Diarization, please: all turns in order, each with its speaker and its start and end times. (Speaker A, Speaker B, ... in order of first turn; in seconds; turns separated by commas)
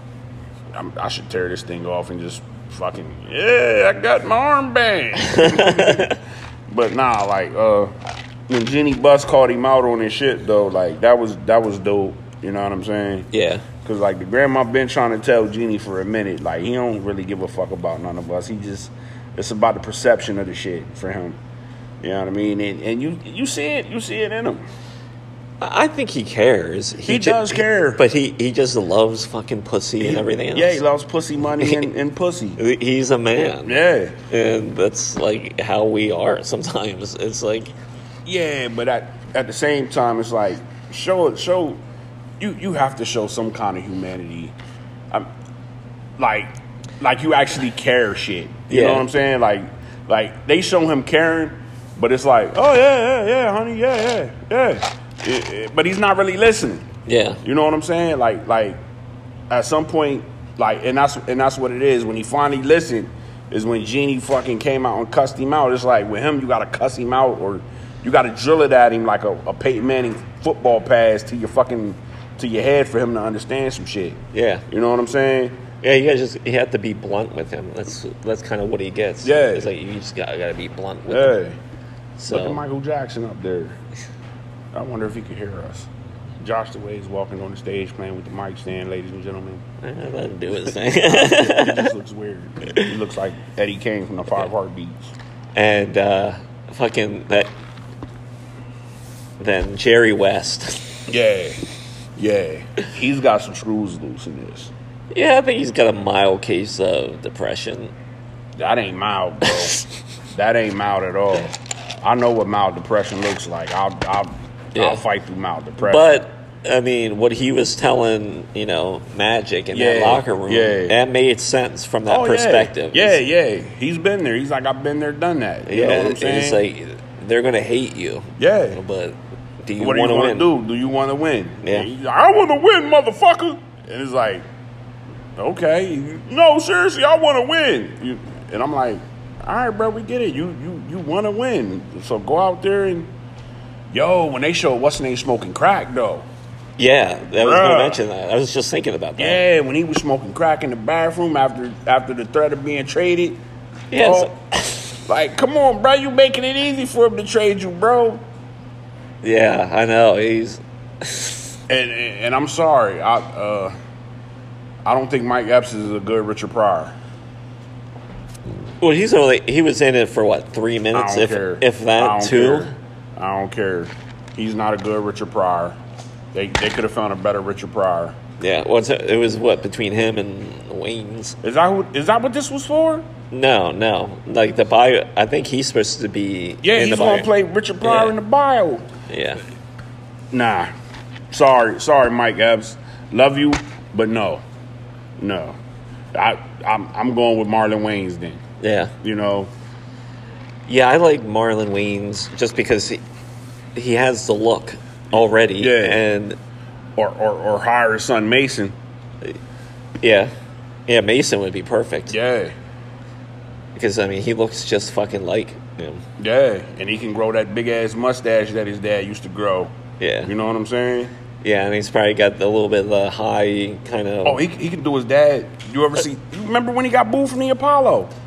Speaker A: 0.7-7.9, Speaker B: 5.2-6.2, Speaker A: 8.5-13.3, Speaker B: 13.3-13.6, Speaker A: 13.8-21.4, Speaker A: 22.0-24.6, Speaker B: 25.6-30.8, Speaker A: 27.0-28.0, Speaker A: 30.0-32.6, Speaker B: 31.6-31.9, Speaker B: 32.6-33.8, Speaker A: 33.6-34.2, Speaker B: 34.3-37.7, Speaker A: 38.2-41.8, Speaker A: 42.4-44.5, Speaker A: 46.2-56.9, Speaker B: 48.7-49.0, Speaker B: 57.0-57.4, Speaker A: 57.4-58.8, Speaker A: 59.5-75.6, Speaker B: 74.3-74.6, Speaker B: 75.8-81.3, Speaker A: 79.2-79.7, Speaker A: 81.1-81.6, Speaker B: 82.2-82.6, Speaker A: 82.3-83.8, Speaker A: 84.7-89.6, Speaker B: 89.8-91.9, Speaker A: 90.7-95.1, Speaker B: 95.5-97.5, Speaker B: 99.4-101.0, Speaker A: 101.1-104.7, Speaker B: 105.1-107.9, Speaker A: 108.5-109.8, Speaker A: 110.3-116.1, Speaker B: 114.7-115.0, Speaker B: 115.8-123.2, Speaker A: 119.7-121.0, Speaker A: 122.1-126.6, Speaker B: 125.7-130.5, Speaker A: 128.4-128.8, Speaker A: 129.8-134.4, Speaker B: 131.6-131.9, Speaker A: 135.4-143.1, Speaker A: 143.9-146.3, Speaker B: 146.8-149.4, Speaker A: 147.4-148.0, Speaker A: 149.2-153.4, Speaker B: 153.9-155.0, Speaker A: 154.0-154.3, Speaker A: 155.1-158.2, Speaker B: 159.2-161.6, Speaker A: 161.7-163.7, Speaker A: 164.8-166.9, Speaker B: 168.8-172.7, Speaker A: 170.9-175.8, Speaker A: 176.3-178.2, Speaker B: 178.4-181.4, Speaker A: 181.4-183.1, Speaker B: 183.3-187.3, Speaker A: 186.6-188.9, Speaker B: 187.8-188.2, Speaker B: 189.1-189.4, Speaker A: 190.3-190.7, Speaker A: 191.3-194.4, Speaker A: 195.2-195.6, Speaker A: 196.1-198.4, Speaker B: 198.6-198.9, Speaker A: 199.0-199.5, Speaker B: 200.7-203.0, Speaker B: 203.8-206.4, Speaker A: 205.6-206.0, Speaker A: 206.9-208.8, Speaker B: 210.0-210.3, Speaker B: 210.9-212.1, Speaker A: 212.1-212.5, Speaker B: 213.8-216.0, Speaker A: 216.2-219.7, Speaker B: 220.0-220.3, Speaker A: 220.2-221.1, Speaker B: 221.4-224.4, Speaker A: 224.2-228.1